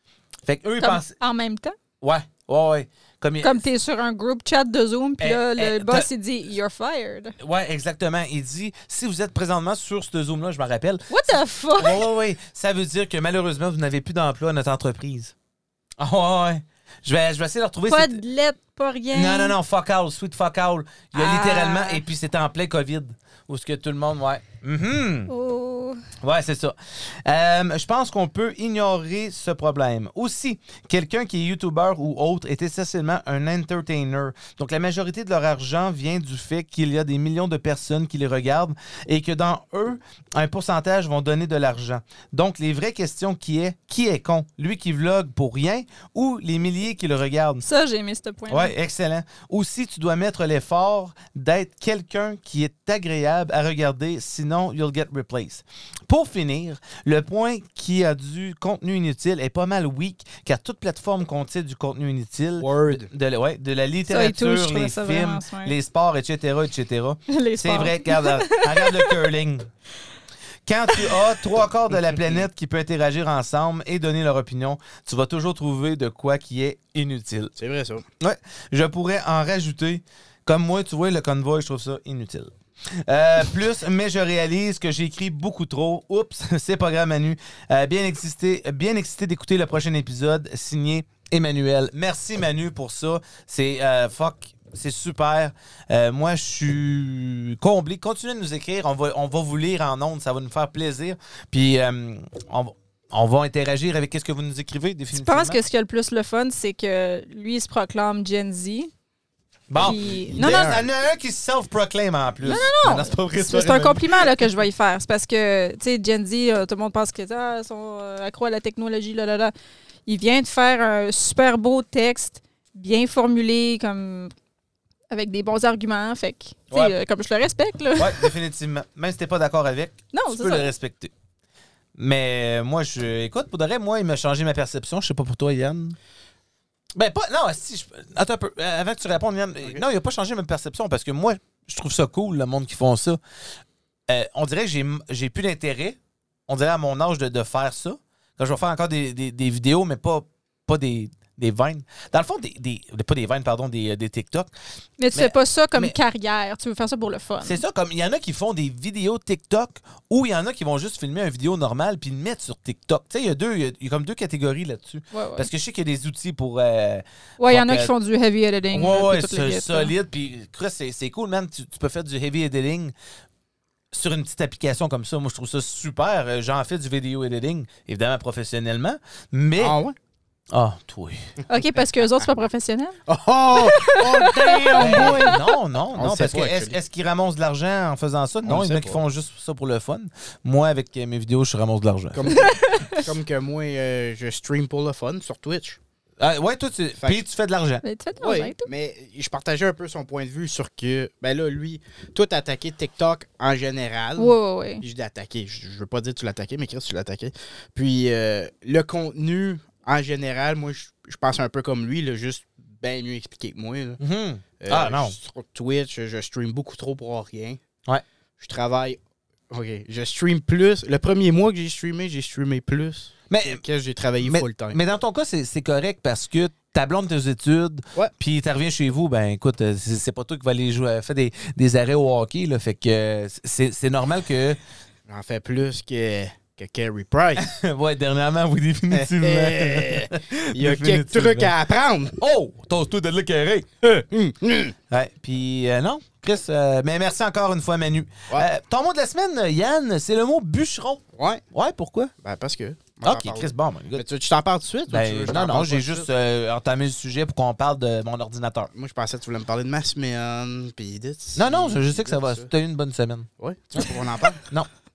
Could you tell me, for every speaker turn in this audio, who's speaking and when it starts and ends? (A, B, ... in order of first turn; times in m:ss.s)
0:00.4-0:01.1 A
0:00.8-0:01.8 B
0:02.0-0:03.6 A
0:03.4-0:07.4 B
0:05.2-0:06.1 A
0:07.4-0:15.3 A
0:11.1-0:12.1 B
0:16.0-0:18.2 A
0:17.9-0:19.6 B
0:19.1-0:25.3 A
0:21.1-0:22.0 B
0:25.3-0:26.0 B
0:26.2-0:47.6 A
0:47.6-0:48.7 B
0:48.5-1:09.7 A
1:02.6-1:03.1 C
1:04.1-1:05.8 B
1:07.3-1:09.2 B
1:10.6-1:17.5 A
1:17.6-1:18.0 C
1:18.2-1:22.5 A
1:23.0-1:45.6 A
1:45.1-1:48.9 B
1:49.7-1:54.3 A
1:49.8-1:50.7 B
1:49.8-1:50.9 C
1:52.4-1:59.5 B
2:00.0-2:04.3 B
2:05.1-2:08.3 B
2:08.0-2:11.1 A
2:10.1-2:10.7 B
2:12.0-2:16.0 A
2:16.9-2:23.2 A
2:24.1-2:34.5 A
2:35.0-2:37.6 B
2:35.1-2:35.9 A
2:37.4-2:47.9 A
2:45.1-2:45.5 B
2:47.4-2:49.9 B
2:48.7-2:52.9 A
2:53.9-2:59.8 A
2:59.6-3:00.0 C
3:00.5-3:01.3 A
3:01.4-3:01.8 C
3:01.5-3:03.0 B
3:03.1-3:05.4 C
3:03.5-3:05.4 B
3:04.8-3:12.4 A
3:05.9-3:06.8 C
3:08.4-3:09.0 C
3:12.1-3:15.8 C
3:12.4-3:13.0 B
3:16.2-3:17.8 A
3:17.8-3:18.7 B
3:18.2-3:34.0 C
3:24.2-3:24.8 B
3:34.0-3:35.2 A
3:34.6-3:37.6 C
3:38.4-3:39.0 C
3:39.5-3:44.8 C
3:43.3-3:43.6 A
3:44.2-3:54.6 A
3:55.1-3:57.5 C
3:57.4-4:01.5 A
3:58.9-4:02.2 C
4:02.2-4:03.7 A
4:03.8-4:04.7 C
4:04.9-4:12.1 A
4:11.1-4:11.4 C
4:12.2-4:16.1 C
4:13.0-4:14.0 A
4:14.9-4:18.7 A
4:18.7-4:22.5 C
4:21.3-4:23.9 A
4:23.4-4:24.4 C